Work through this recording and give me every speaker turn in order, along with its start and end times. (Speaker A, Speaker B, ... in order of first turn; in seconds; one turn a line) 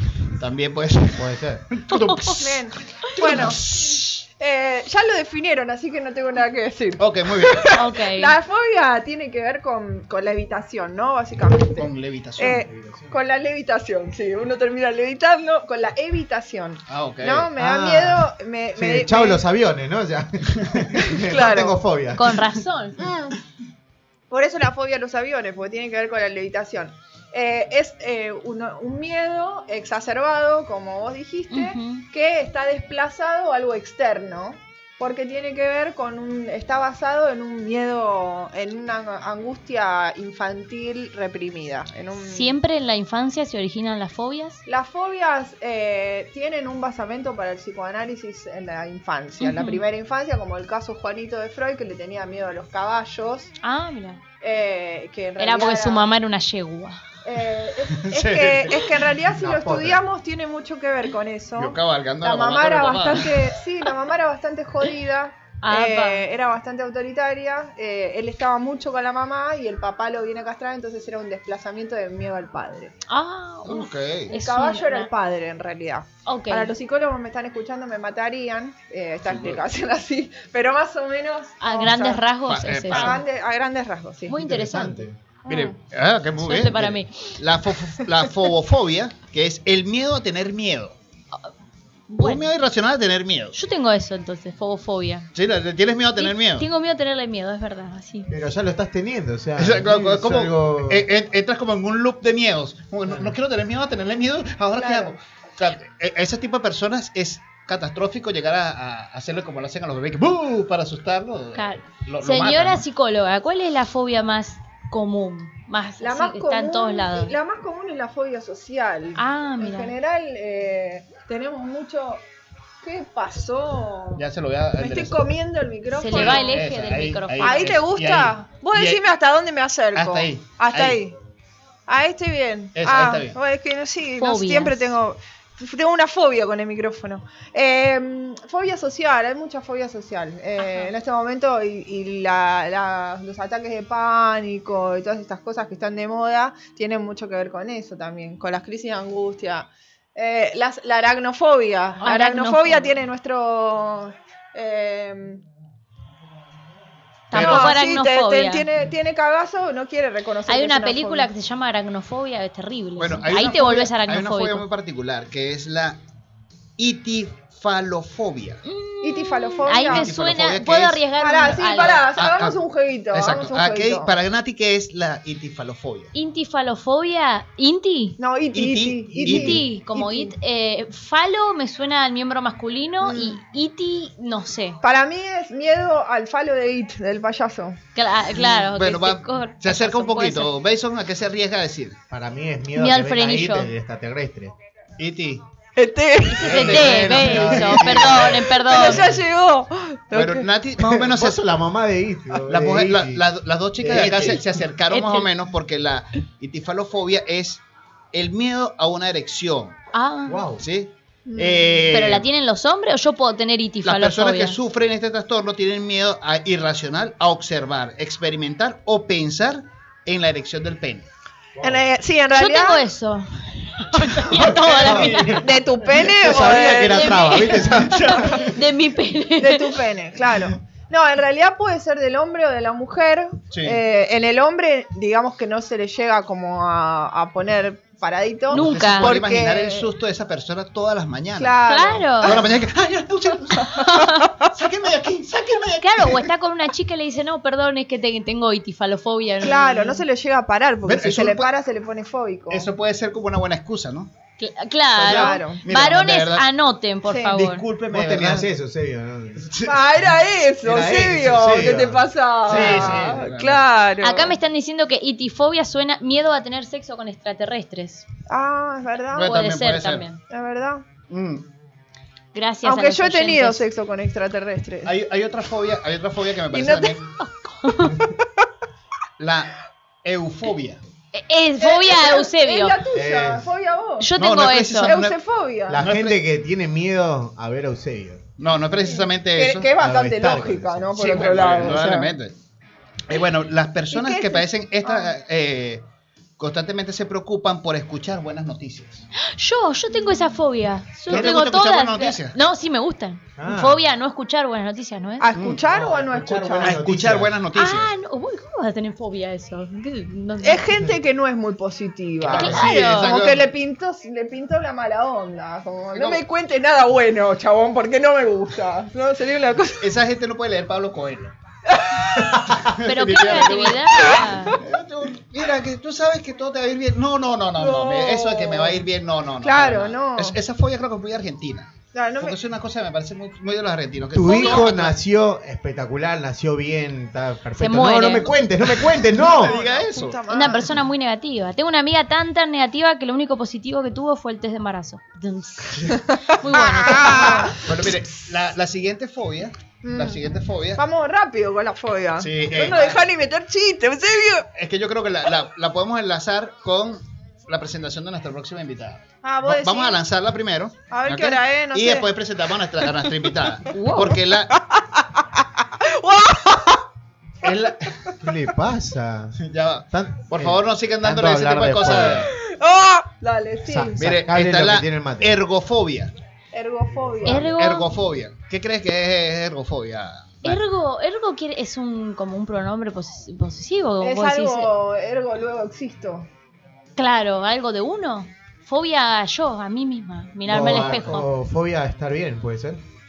Speaker A: 0.4-4.2
Speaker B: 1.1-1.6
Speaker C: 1.9-2.4
Speaker D: 2.4-19.4
Speaker A: 7.0-7.6
Speaker C: 7.7-8.3
Speaker A: 11.8-12.6
Speaker B: 12.7-13.1
Speaker A: 16.9-17.5
Speaker B: 17.6-22.5
Speaker D: 21.0-21.8
Speaker C: 22.1-23.0
Speaker D: 23.0-23.4
Speaker D: 24.3-42.5
Speaker C: 31.5-32.1
Speaker C: 42.2-44.6
Speaker D: 44.7-53.5
Speaker C: 49.4-49.8
Speaker C: 53.6-54.2
Speaker D: 54.4-56.1
Speaker C: 55.4-57.0
Speaker D: 57.2-72.9
Speaker A: 58.0-59.0
Speaker B: 59.4-60.0
Speaker A: 61.6-63.4
Speaker C: 65.6-66.2
Speaker C: 73.1-75.1
Speaker A: 73.7-74.3
Speaker D: 74.3-82.3
Speaker C: 76.2-76.7
Speaker A: 79.2-79.6
Speaker C: 81.6-83.2
Speaker A: 82.4-83.2
Speaker D: 82.9-84.4
Speaker C: 84.3-85.1
Speaker B: 84.3-85.2
Speaker D: 85.5-85.8
Speaker A: 85.5-91.0
Speaker C: 86.4-87.4
Speaker C: 92.1-92.5
Speaker A: 92.2-93.6
Speaker C: 93.5-95.3
Speaker A: 95.3-96.7
Speaker C: 96.2-98.3
Speaker B: 98.3-101.1
Speaker A: 99.6-112.8
Speaker D: 104.7-105.1
Speaker C: 111.5-117.4
Speaker D: 116.0-122.2
Speaker C: 119.2-119.9
Speaker D: 122.8-124.2
Speaker A: 124.2-125.3
Speaker D: 124.8-126.6
Speaker C: 125.9-127.8
Speaker A: 126.1-129.1
Speaker D: 127.4-131.2
Speaker A: 129.9-131.0
Speaker D: 131.9-155.4
Speaker A: 132.8-133.4
Speaker C: 134.2-134.9
Speaker C: 140.6-140.9
Speaker C: 152.0-152.9
Speaker C: 157.3-158.7
Speaker A: 157.3-157.7
Speaker D: 157.3-161.3
Speaker C: 160.5-164.7
Speaker A: 163.0-166.0
Speaker A: 166.8-168.6
Speaker C: 168.7-172.1
Speaker D: 169.0-170.1
Speaker A: 169.8-171.0
Speaker D: 171.2-174.1
Speaker A: 171.7-172.6
Speaker A: 173.1-176.1
Speaker C: 176.1-178.2
Speaker D: 178.2-180.3
Speaker A: 178.5-179.7
Speaker C: 179.3-184.8
Speaker D: 183.0-183.4
Speaker D: 184.8-187.8
Speaker C: 187.9-190.5
Speaker A: 188.3-192.0
Speaker B: 192.1-194.5
Speaker C: 192.7-193.7
Speaker A: 195.0-195.4
Speaker D: 195.8-197.0
Speaker C: 196.3-199.1
Speaker A: 196.4-198.6
Speaker B: 197.3-197.8
Speaker D: 197.8-200.5
Speaker A: 200.1-201.5
Speaker B: 200.8-203.2
Speaker A: 202.4-207.6
Speaker B: 203.8-204.4
Speaker C: 204.9-205.3
Speaker A: 208.1-209.8
Speaker C: 209.9-210.4
Speaker B: 210.3-210.6
Speaker A: 210.6-212.3
Speaker D: 211.3-211.9
Speaker C: 211.9-214.6
Speaker A: 213.8-221.1
Speaker B: 221.6-221.8
Speaker D: 221.6-222.9
Speaker C: 222.3-225.4
Speaker A: 224.2-225.5
Speaker B: 224.7-228.3
Speaker D: 225.4-227.4
Speaker C: 226.6-229.8
Speaker D: 228.2-228.4
Speaker D: 229.4-239.9
Speaker A: 233.5-233.8
Speaker A: 238.5-241.6
Speaker C: 238.5-239.2
Speaker D: 241.4-242.5
Speaker C: 241.7-242.4
Speaker A: 242.2-243.8
Speaker C: 243.8-244.3
Speaker A: 244.5-246.3
Speaker C: 245.8-250.0
Speaker D: 249.4-252.7
Speaker A: 250.9-251.5
Speaker A: 252.5-254.1
Speaker C: 254.4-257.7
Speaker A: 255.0-256.5
Speaker D: 255.1-255.6
Speaker D: 257.1-257.4
Speaker A: 257.3-258.5
Speaker B: 257.9-259.5
Speaker A: 259.5-259.8
Speaker D: 259.6-264.4
Speaker B: 260.6-263.2
Speaker A: 262.4-263.6
Speaker C: 264.0-268.1
Speaker D: 268.3-269.4
Speaker A: 269.1-270.1
Speaker C: 269.2-270.2
Speaker D: 270.3-270.8
Speaker A: 271.1-271.5
Speaker C: 272.3-273.7
Speaker D: 272.6-275.0
Speaker A: 274.9-277.1
Speaker D: 276.5-277.0
Speaker C: 277.2-278.0
Speaker D: 277.8-278.1
Speaker A: 279.2-279.5
Speaker A: 280.0-280.8
Speaker C: 281.1-282.8
Speaker D: 281.6-284.1
Speaker B: 282.9-283.5
Speaker C: 284.0-285.0
Speaker A: 284.2-285.2
Speaker D: 284.8-285.9
Speaker B: 285.7-288.2
Speaker A: 285.8-286.2
Speaker A: 288.4-289.7
Speaker D: 288.8-292.1
Speaker B: 289.8-291.8
Speaker A: 291.0-292.4
Speaker A: 293.1-295.9
Speaker D: 293.9-295.1
Speaker A: 296.4-299.1
Speaker C: 299.2-305.3
Speaker A: 301.1-302.4
Speaker B: 303.4-303.8
Speaker D: 305.2-306.9
Speaker A: 305.3-305.7
Speaker B: 305.6-307.3
Speaker A: 306.6-307.9
Speaker C: 307.6-310.6
Speaker D: 310.4-319.9
Speaker A: 312.2-313.5
Speaker B: 312.2-312.7
Speaker C: 312.3-313.1
Speaker A: 315.9-316.2
Speaker A: 319.8-321.4
Speaker D: 321.7-322.5
Speaker A: 322.4-335.0
Speaker C: 322.9-324.6
Speaker D: 324.1-324.6
Speaker D: 327.6-328.8
Speaker D: 329.4-330.4
Speaker D: 331.9-332.4
Speaker B: 334.1-339.6
Speaker D: 334.3-334.7
Speaker C: 337.6-338.3
Speaker A: 338.9-340.2
Speaker D: 339.0-340.7
Speaker C: 340.3-347.6
Speaker D: 346.5-348.0
Speaker A: 347.6-350.8
Speaker D: 349.8-350.2
Speaker D: 350.8-354.5
Speaker A: 352.2-353.1
Speaker A: 354.6-364.5
Speaker D: 359.2-360.0
Speaker D: 360.9-362.1
Speaker C: 363.7-364.1
Speaker D: 364.8-366.8
Speaker A: 367.4-367.9
Speaker B: 368.2-369.4
Speaker A: 369.4-372.3
Speaker B: 369.9-372.3
Speaker D: 371.9-374.2
Speaker B: 373.6-375.4
Speaker A: 374.0-376.1
Speaker D: 376.5-377.6
Speaker C: 377.2-377.9
Speaker A: 377.5-380.6
Speaker C: 380.4-384.7
Speaker D: 384.0-386.3
Speaker C: 387.0-391.3
Speaker B: 390.4-392.8
Speaker D: 390.8-391.2